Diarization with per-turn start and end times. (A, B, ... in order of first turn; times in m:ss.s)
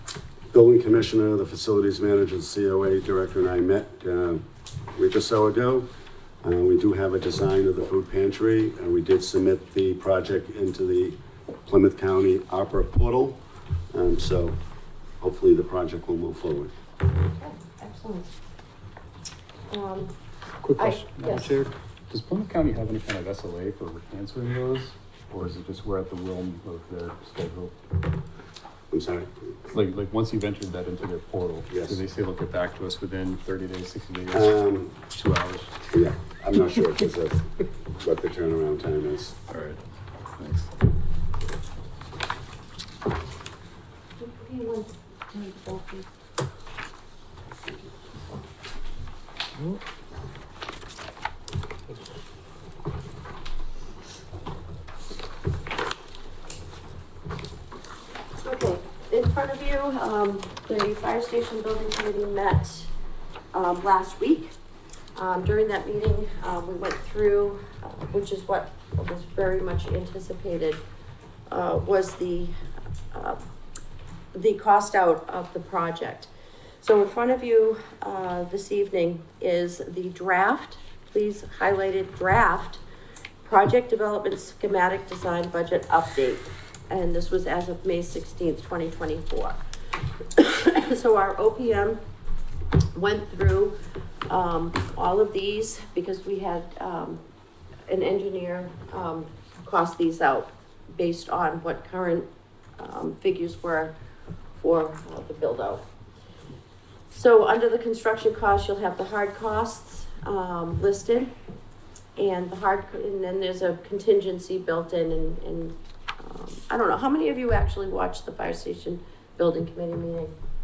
0:00.5-0:04.4 A
0:04.9-0:05.9 A
0:06.4-0:14.6 A
0:15.2-0:16.7 A
0:17.3-0:18.3 B
0:19.7-0:20.1 B
0:20.6-0:27.8 C
0:20.8-0:21.5 B
0:28.9-0:29.3 A
0:29.6-0:35.8 C
0:31.7-0:32.0 A
0:34.3-0:35.0 A
0:35.9-0:39.3 A
0:39.5-0:39.8 C
0:40.4-0:40.7 C
0:44.2-0:46.1 B
0:58.3-1:02.9 B
1:03.5-1:04.5 B
1:05.1-1:10.8 B
1:11.5-1:12.5 B
1:13.1-1:13.4 B
1:14.3-1:22.8 B
1:23.4-1:29.6 B
1:30.4-1:32.0 B
1:32.9-1:37.2 B
1:37.9-1:44.0 B
1:44.6-1:45.8 B
1:47.1-1:51.3 B
1:52.2-2:00.3 B